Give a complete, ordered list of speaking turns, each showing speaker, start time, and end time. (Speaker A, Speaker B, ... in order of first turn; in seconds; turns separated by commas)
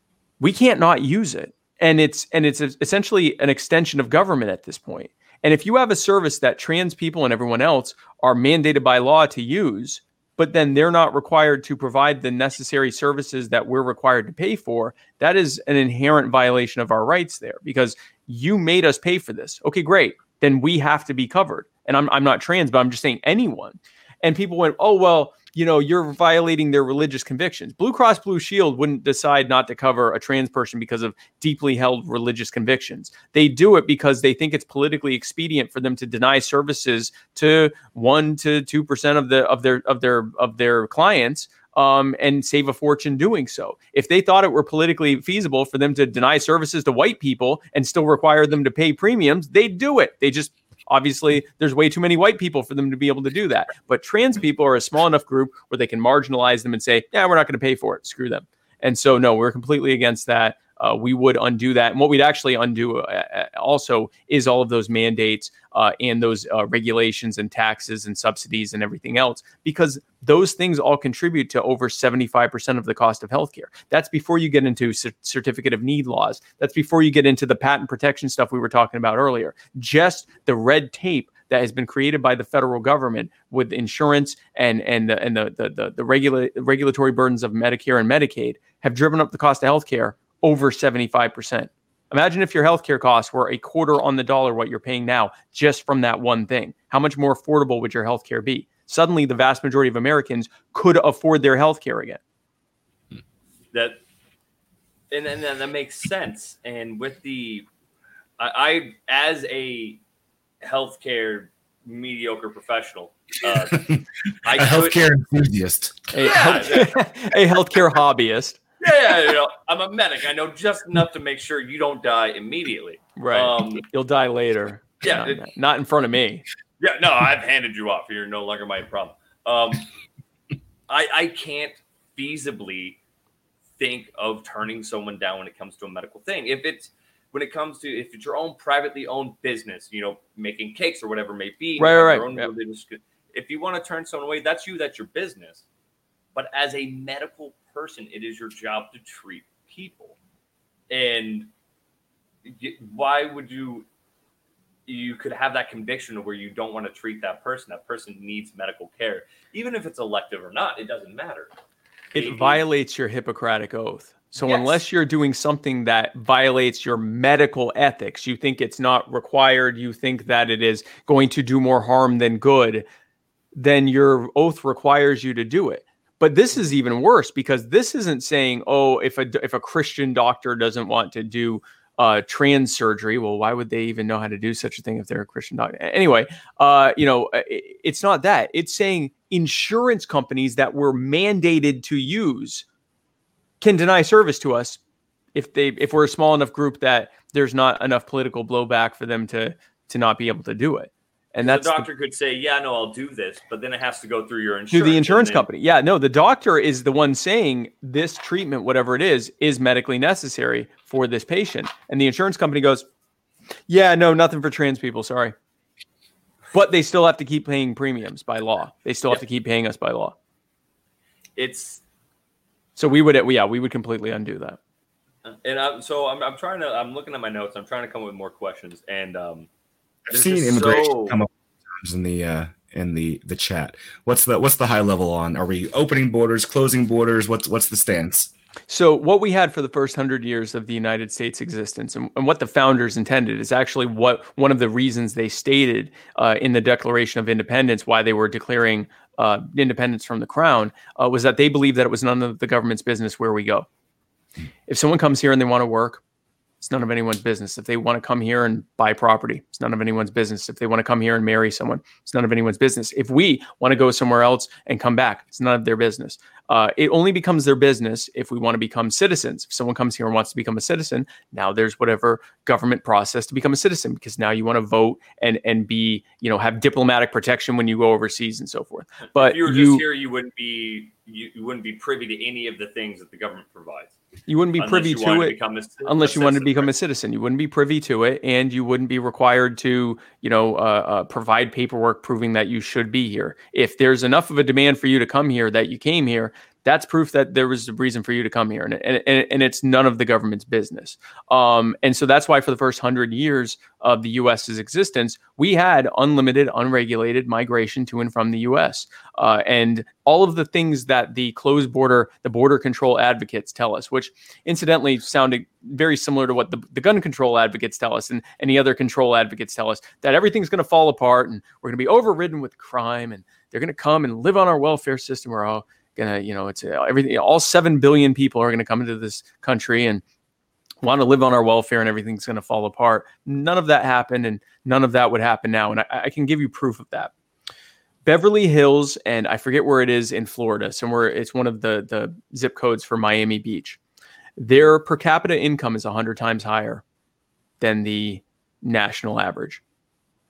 Speaker A: 0.4-102.2, Speaker B: 103.7-104.0, Speaker B: 105.1-107.7, Speaker B: 108.4-110.0, Speaker B: 110.6-115.0, Speaker C: 113.9-116.1, Speaker A: 116.1-118.6, Speaker B: 116.2-117.0, Speaker B: 118.8-123.8, Speaker A: 123.2-126.5, Speaker B: 125.0-125.4, Speaker B: 126.8-129.9, Speaker B: 130.9-133.0, Speaker B: 133.8-145.6, Speaker A: 141.8-142.5, Speaker B: 146.3-150.2, Speaker B: 150.9-151.5, Speaker B: 152.4-153.9, Speaker B: 154.9-161.5, Speaker B: 162.1-162.6, Speaker A: 162.1-172.9, Speaker B: 164.4-164.8, Speaker A: 173.6-192.7, Speaker A: 193.6-194.8, Speaker A: 195.3-201.9, Speaker B: 201.4-205.5, Speaker A: 204.7-212.9, Speaker A: 213.7-215.3, Speaker A: 216.5-220.2, Speaker B: 221.4-221.8, Speaker A: 222.8-224.6, Speaker B: 225.2-229.5, Speaker C: 230.1-238.3, Speaker B: 230.1-231.2, Speaker A: 238.7-253.7, Speaker A: 254.7-256.0, Speaker A: 256.6-279.8, Speaker B: 279.1-284.0, Speaker A: 284.3-330.0, Speaker B: 284.6-286.7, Speaker A: 330.8-337.1, Speaker A: 338.1-343.8, Speaker A: 344.4-346.8, Speaker A: 347.6-349.6